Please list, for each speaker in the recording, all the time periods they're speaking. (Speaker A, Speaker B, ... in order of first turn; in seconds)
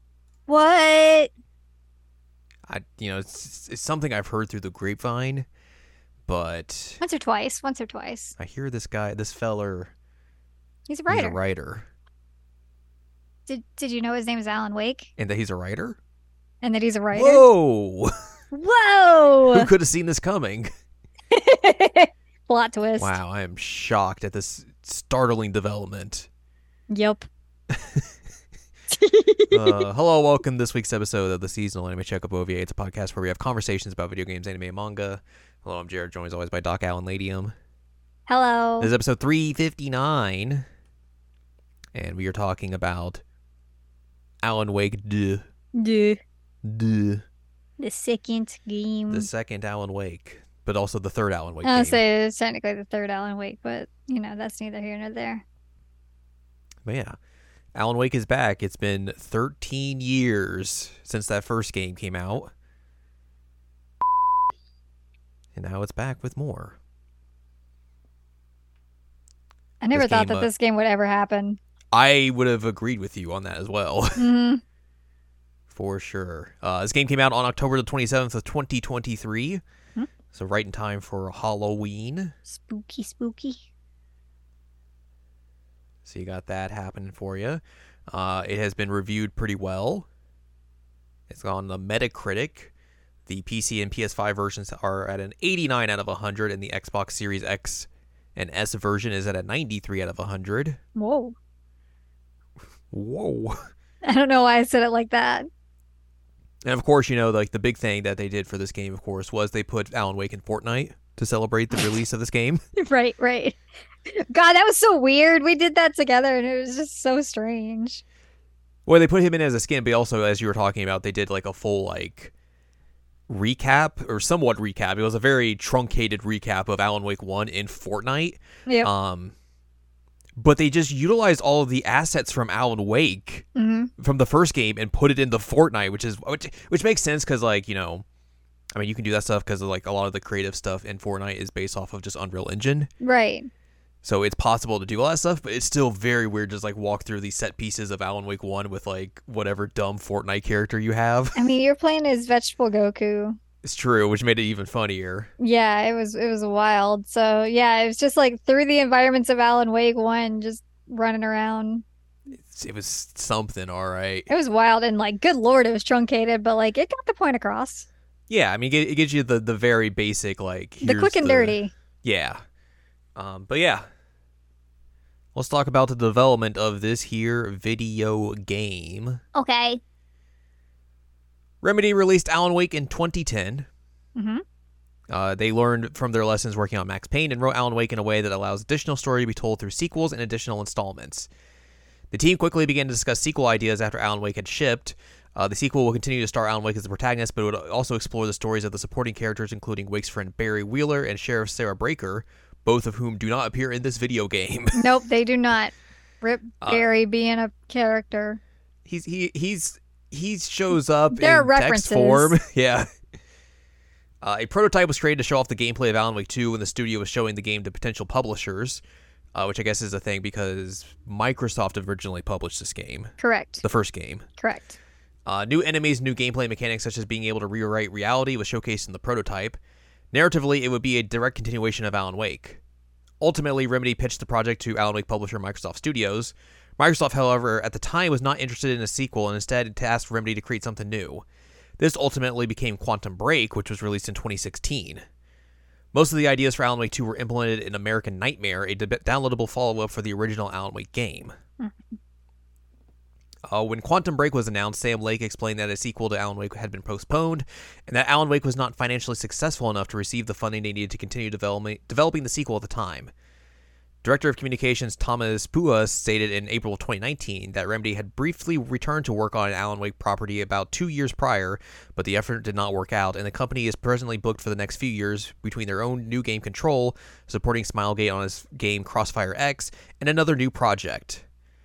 Speaker A: 0.5-1.3, 7.0-8.3, 10.9-11.4, 13.5-15.1, 16.6-17.4, 18.5-19.7, 21.3-23.2, 26.9-27.3, 28.9-29.8, 38.3-38.9, 45.8-46.2, 47.8-49.3, 51.6-55.5, 69.8-71.6, 74.2-74.6, 82.5-83.7, 101.0-101.3, 104.0-105.5, 112.8-118.0, 133.6-133.9, 143.0-143.5, 151.4-153.4, 155.4-161.8, 164.3-167.9, 170.8-171.7, 179.4-179.8, 184.2-184.4, 204.8-208.4, 211.1-212.4, 223.2-223.7, 224.4-224.8
Speaker B: 2.7-5.5, 6.3-7.0, 8.4-9.9, 11.1-11.9, 15.2-16.0, 17.1-18.1, 19.5-20.7, 23.0-26.3, 27.7-28.1, 29.5-37.5, 38.8-40.6, 41.9-43.2, 44.4-45.5, 46.6-47.2, 49.1-52.0, 56.8-57.2, 57.8-62.5, 65.5-66.8, 69.9-70.5, 71.9-74.3, 75.7-79.6, 80.3-82.3, 86.1-90.1, 91.3-92.7, 93.3-100.8, 102.9-103.7, 106.6-112.6, 118.9-122.3, 123.3-129.3, 130.4-133.5, 134.0-138.1, 138.7-142.9, 144.0-151.4, 153.6-155.3, 162.3-164.3, 168.3-172.4, 173.2-173.8, 175.3-179.2, 181.6-183.7, 185.1-191.3, 192.1-204.8, 206.6-206.9, 208.9-212.9, 214.2-218.8, 219.3-224.3, 225.3-229.6, 230.1-232.6, 233.2-241.2, 241.8-245.0, 245.9-251.3, 253.5-263.1, 264.0-281.2